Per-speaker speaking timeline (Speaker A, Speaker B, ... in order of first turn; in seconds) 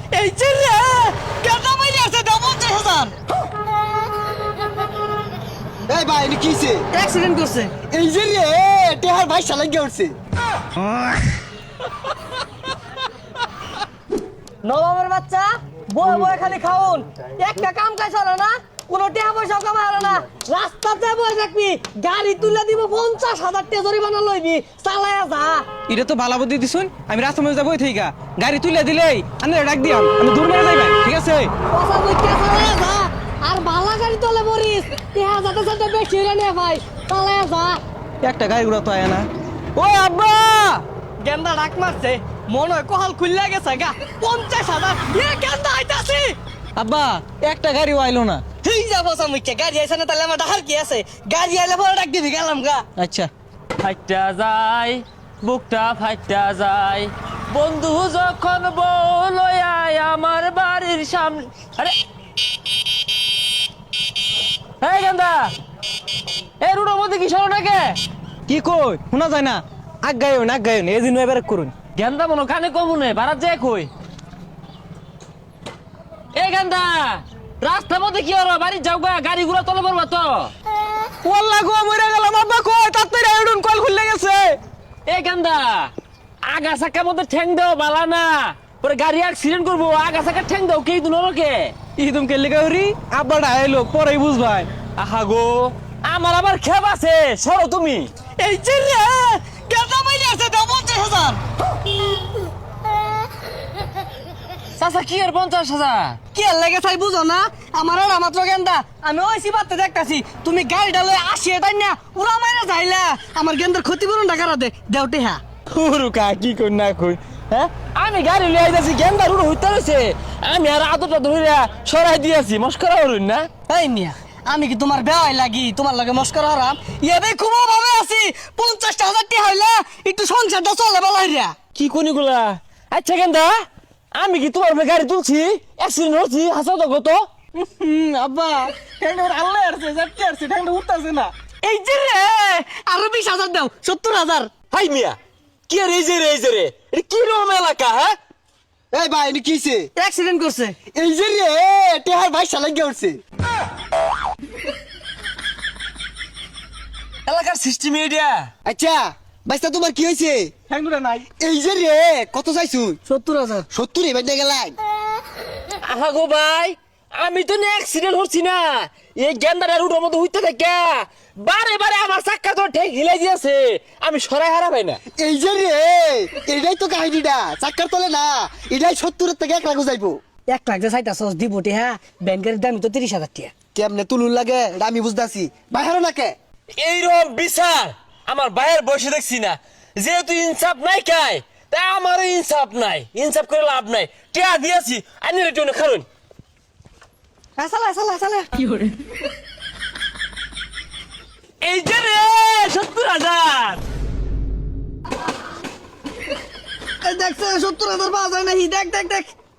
Speaker A: 0.1-3.1, 6.9-7.7, 14.6-25.6, 31.7-37.8, 41.2-46.4, 48.6-52.9, 98.4-101.4, 106.3-115.4, 123.7-131.6, 141.6-144.5, 150.0-150.8, 163.1-163.7, 180.5-183.5, 197.6-198.9, 207.0-209.3
Speaker B: 5.9-6.9, 7.9-10.2, 148.9-149.9, 150.9-153.2, 158.7-160.5, 161.4-163.0, 163.7-164.8, 175.2-180.2, 183.8-186.3
Speaker C: 25.9-31.5, 38.2-40.8, 46.8-48.4, 53.0-53.3, 68.5-71.8, 81.2-84.6, 92.0-94.7, 137.8-141.3, 160.7-161.2
Speaker D: 53.8-62.0, 64.8-65.5, 66.6-68.0, 71.9-73.9, 76.3-80.5, 85.0-85.9, 86.4-91.8, 95.0-98.1, 104.8-106.2, 115.7-123.5, 131.8-137.3, 144.7-148.2, 157.3-158.5, 165.8-175.0, 186.8-196.1, 201.6-203.8